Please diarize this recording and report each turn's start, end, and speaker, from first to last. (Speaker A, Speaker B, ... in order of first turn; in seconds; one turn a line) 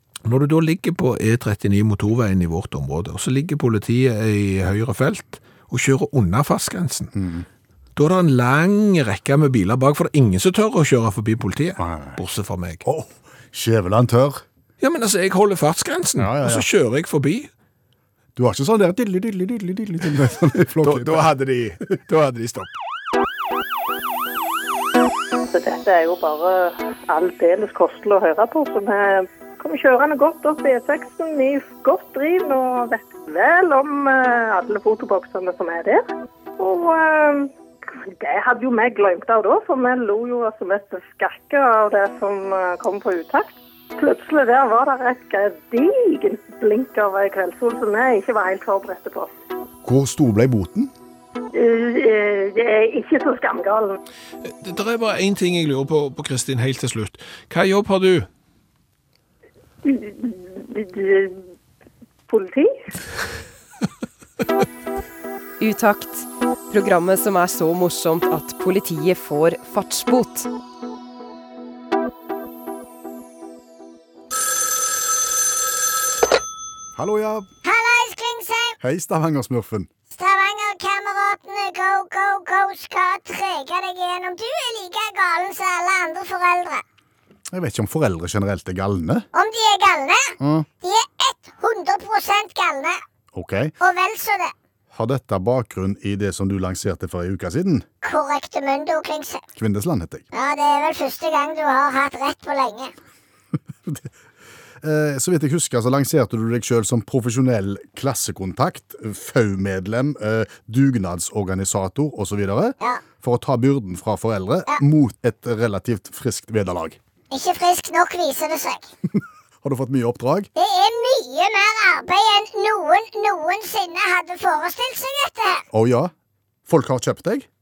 Speaker A: 0.2-7.1
Speaker B: 7.1-7.5
Speaker A: 8.0-12.8
Speaker B: 11.8-12.2
Speaker B: 12.8-14.4
Speaker A: 14.8-17.5
Speaker B: 16.2-16.6
Speaker B: 18.4-21.2
Speaker A: 20.8-22.7
Speaker C: 25.5-36.0
Speaker C: 36.6-49.3
Speaker B: 49.8-50.9
Speaker C: 51.5-54.0
Speaker A: 54.4-58.3
Speaker C: 59.8-61.4
Speaker C: 62.3-62.7
Speaker D: 65.6-70.5
Speaker B: 77.0-77.5
Speaker E: 77.6-78.8
Speaker B: 78.8-79.9
Speaker E: 80.1-86.8
Speaker B: 87.5-89.2
Speaker E: 89.3-93.0
Speaker B: 90.4-90.7
Speaker B: 93.3-93.7
Speaker E: 93.8-94.5
Speaker B: 94.9-97.8
Speaker E: 98.0-99.4
Speaker B: 99.5-100.2
Speaker E: 100.3-102.9
Speaker B: 103.8-104.1
Speaker B: 104.8-117.0
Speaker E: 117.3-118.9
Speaker B: 119.6-120.5
Speaker E: 120.5-125.6
Speaker B: 125.7-126.1
Speaker B: 126.7-127.5